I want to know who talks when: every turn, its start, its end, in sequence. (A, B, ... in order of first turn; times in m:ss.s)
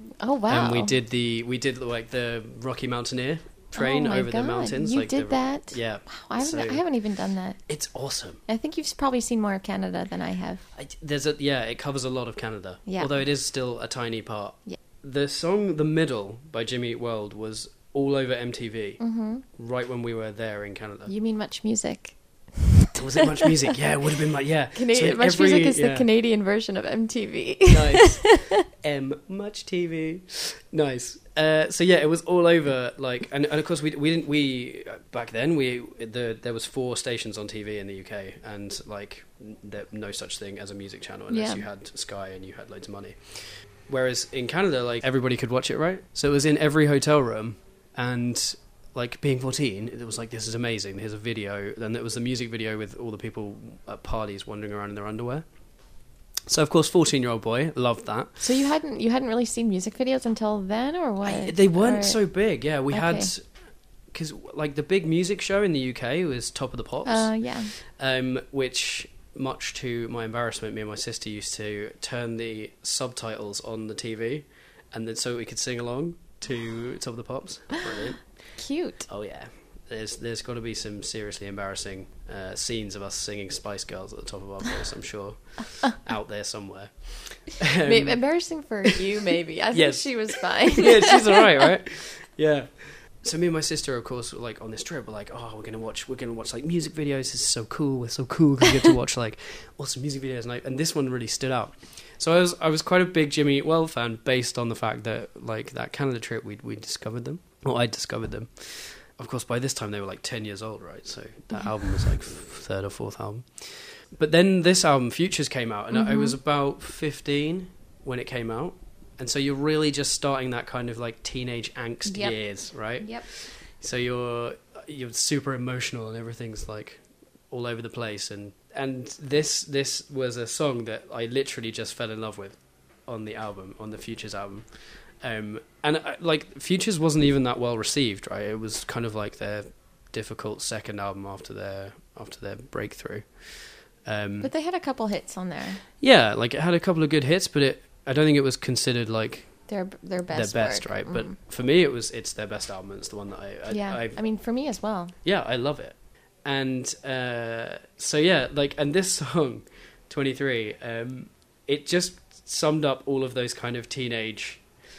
0:00.2-0:01.0 A
0:00.5-0:06.8 B
0:03.7-0:07.6 A
0:07.7-0:08.4 B
0:08.5-0:10.6 A
0:10.7-0:19.0 B
0:12.9-0:13.1 A
0:19.0-0:19.4 A
0:19.6-0:21.1 B
0:21.1-0:23.5 A
0:23.0-0:26.1 B
0:24.7-0:28.5 A
0:27.7-0:55.4 B
0:41.3-0:41.6 A
0:56.5-0:58.4 B
0:58.4-1:02.2 A
1:01.2-1:03.4 B
1:02.9-1:03.3 A
1:04.1-1:18.2 B
1:07.0-1:07.7 A
1:18.6-1:19.1 A
1:19.1-1:28.2 B
1:27.8-1:31.5 A
1:28.8-2:14.7 B
1:55.9-1:56.4 A
2:02.1-2:02.4 A
2:03.0-2:03.3 A
2:15.2-2:23.5 B
2:24.0-2:24.5 B
2:24.4-2:25.8 A
2:26.0-2:29.5 B
2:29.7-2:31.4 A
2:30.3-2:34.2 B
2:33.7-2:35.1 A
2:35.2-2:44.6 B